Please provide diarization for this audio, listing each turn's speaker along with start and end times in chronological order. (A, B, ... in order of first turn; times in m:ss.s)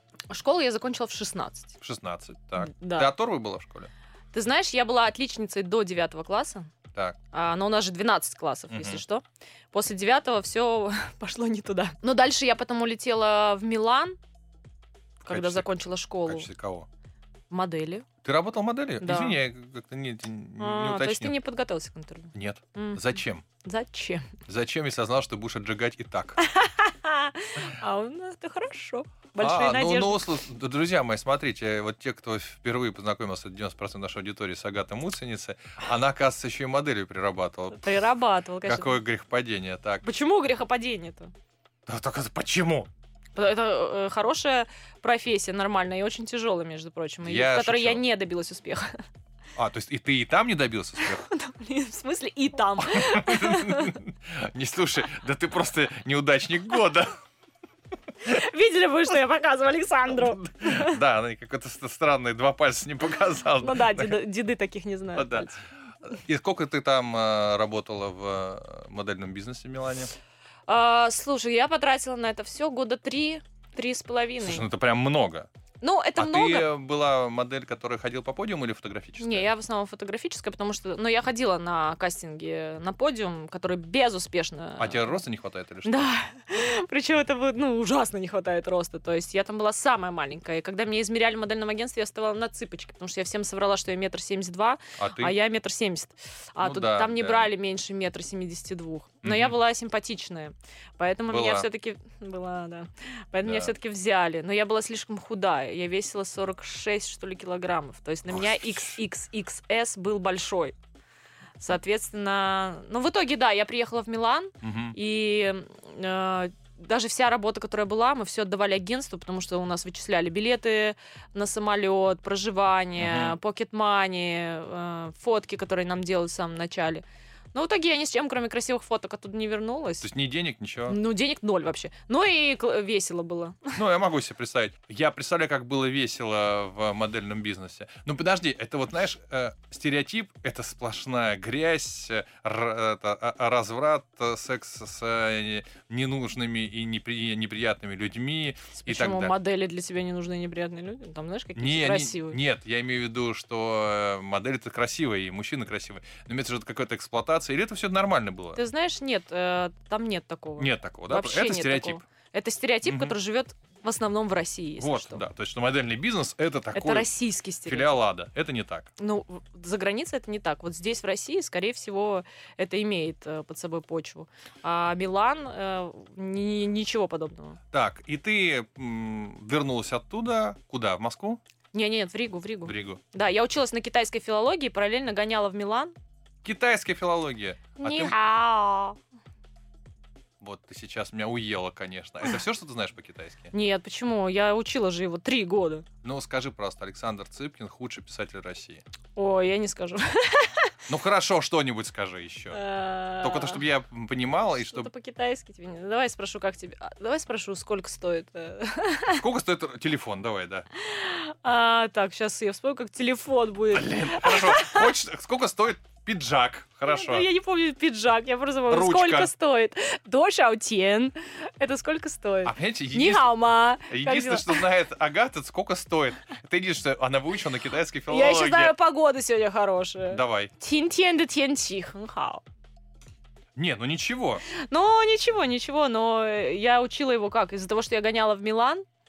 0:00.3-0:01.8 A
0:01.8-0:03.9 B
0:02.6-0:03.1 A
0:04.3-0:06.7 A
0:07.3-0:14.2 A
0:08.7-0:09.0 B
0:15.2-0:16.5 A
0:15.2-0:15.6 B
0:16.2-0:16.9 B
0:17.5-0:18.1 A
0:18.2-0:21.3 B
0:19.0-0:19.4 A
0:20.6-0:23.0 A
0:22.3-0:23.4 B
0:23.6-0:24.3 A
0:24.5-0:26.4 B
0:26.4-0:30.3 A
0:29.4-0:37.9 B
0:37.7-0:38.9 A
0:38.6-0:40.0 B
0:40.0-0:41.3 A
0:41.8-0:42.9 B
0:43.3-0:49.0 A
0:47.2-0:48.0 B
0:49.6-0:51.2 B
0:51.0-0:54.0 A
0:52.8-0:57.2 B
0:58.2-1:01.0 A
1:00.1-1:04.2 B
1:03.6-1:05.6 A
1:05.2-1:05.5 B
1:06.0-1:10.1 B
1:10.7-1:14.6 A
1:14.4-1:15.5 B
1:15.8-1:16.7 A
1:16.2-1:19.5 B
1:19.2-1:25.2 A
1:24.8-1:26.1 B
1:25.8-1:50.7 A
1:35.0-1:35.3 B
1:36.6-1:37.5 B
1:39.2-1:39.6 B
1:41.3-1:41.7 B
1:43.4-1:43.7 B
1:48.3-1:48.8 B
1:51.6-2:10.1 A
1:54.6-1:55.0 B
2:03.0-2:03.4 B
2:10.0-2:11.0 B
2:10.9-2:13.8 A
2:13.7-2:29.3 B
2:28.8-2:32.4 A
2:31.6-2:38.6 B
2:38.6-2:45.2 A
2:40.6-2:42.0 B
2:42.8-2:43.1 B
2:44.8-2:47.1 B
2:46.7-2:48.0 A
2:47.6-2:48.9 B
2:49.0-2:57.6 A
2:57.7-3:01.4 B
3:01.7-3:05.9 A
3:02.6-3:03.0 B
3:06.4-3:08.2 B
3:07.8-3:09.0 A
3:10.4-3:13.5 B
3:13.5-3:15.8 A
3:16.0-3:18.8 B
3:19.2-3:20.7 A
3:20.9-3:22.6 B
3:22.5-3:23.6 A
3:23.2-3:24.9 B
3:24.6-3:29.2 A
3:29.1-3:30.6 B
3:30.8-3:34.9 A
3:33.7-3:37.3 B
3:36.9-3:44.6 A
3:38.7-3:39.3 B
3:42.4-3:43.3 B
3:43.9-3:48.7 B
3:48.1-3:52.4 A
3:50.1-3:50.5 B
3:53.5-3:54.4 B
3:54.5-3:58.8 A